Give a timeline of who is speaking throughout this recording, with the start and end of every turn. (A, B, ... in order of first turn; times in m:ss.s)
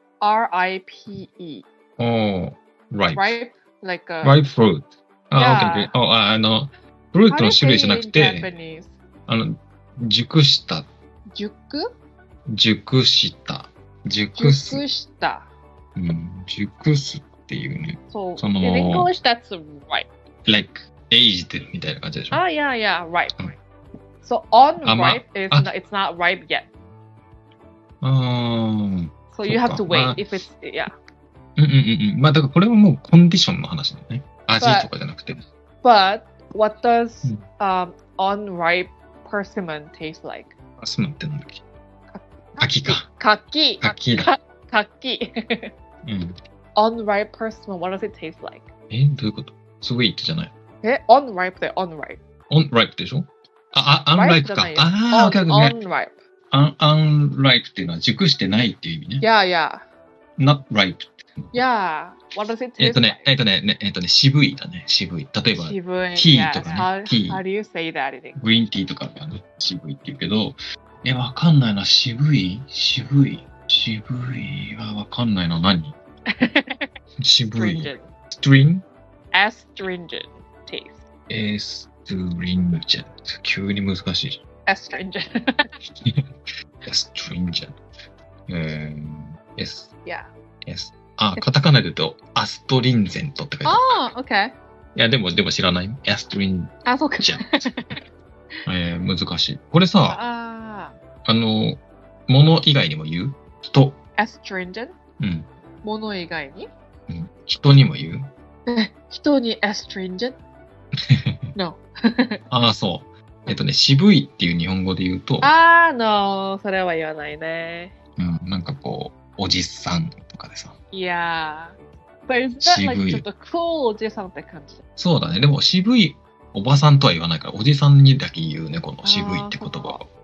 0:00.2-0:01.6 A
0:02.0-0:03.4 B
0:03.1-0:04.4 A
0:04.2-0:08.5 B
0:05.3-0:05.9 A
0:07.3-0:09.0 A
0:09.3-0:10.9 B
0:11.3-0:11.9 A
0:12.5-0:14.8 B
0:14.4-0:15.5 A
0:15.9-0:19.1 B
0:18.1-0:20.1 A
0:20.4-0:22.4 B
0:22.3-0:23.5 A
0:24.2-0:26.7 A
0:24.8-0:25.7 B
0:28.0-0:30.3 B
0:29.3-0:30.9 A
0:31.6-0:35.4 B
0:34.6-0:34.9 A
0:35.8-0:40.5 A
0:40.8-0:41.6 B
0:42.1-0:45.7 A
0:42.6-0:43.1 B
0:43.8-0:44.3 B
0:46.0-0:46.3 B
0:46.8-0:48.7 A
0:48.9-0:50.5 B
0:50.8-0:52.2 A
0:52.5-0:55.8 B
0:54.1-0:56.2 A
0:56.5-0:59.2 B
0:59.2-0:59.8 A
1:00.4-1:01.6 B
1:01.5-1:03.3 A
1:02.8-1:07.4 B
1:05.6-1:08.4 A
1:08.4-1:16.0 B
1:16.3-1:16.9 A
1:17.2-1:18.8 B
1:17.5-1:18.1 A
1:19.3-1:21.0 A
1:21.3-1:24.4 B
1:24.6-1:25.7 A
1:26.0-1:27.8 B
1:28.5-1:29.9 B
1:30.6-1:34.0 B
1:33.6-1:34.5 A
1:34.9-1:37.7 B
1:36.8-1:38.0 A
1:38.6-1:40.2 B
1:40.1-1:40.9 A
1:41.2-1:44.0 B
1:44.2-1:45.0 A
1:45.2-1:45.5 B
1:45.8-1:46.7 A
1:47.1-1:48.3 B
1:48.7-1:50.4 A
1:51.1-1:51.4 B
1:51.5-1:52.4 A
1:52.5-1:55.5 B
1:55.4-1:57.9 A
1:58.2-2:00.8 B
2:00.9-2:04.8 A
2:02.6-2:03.2 B
2:05.0-2:10.0 B
2:09.0-2:10.0 A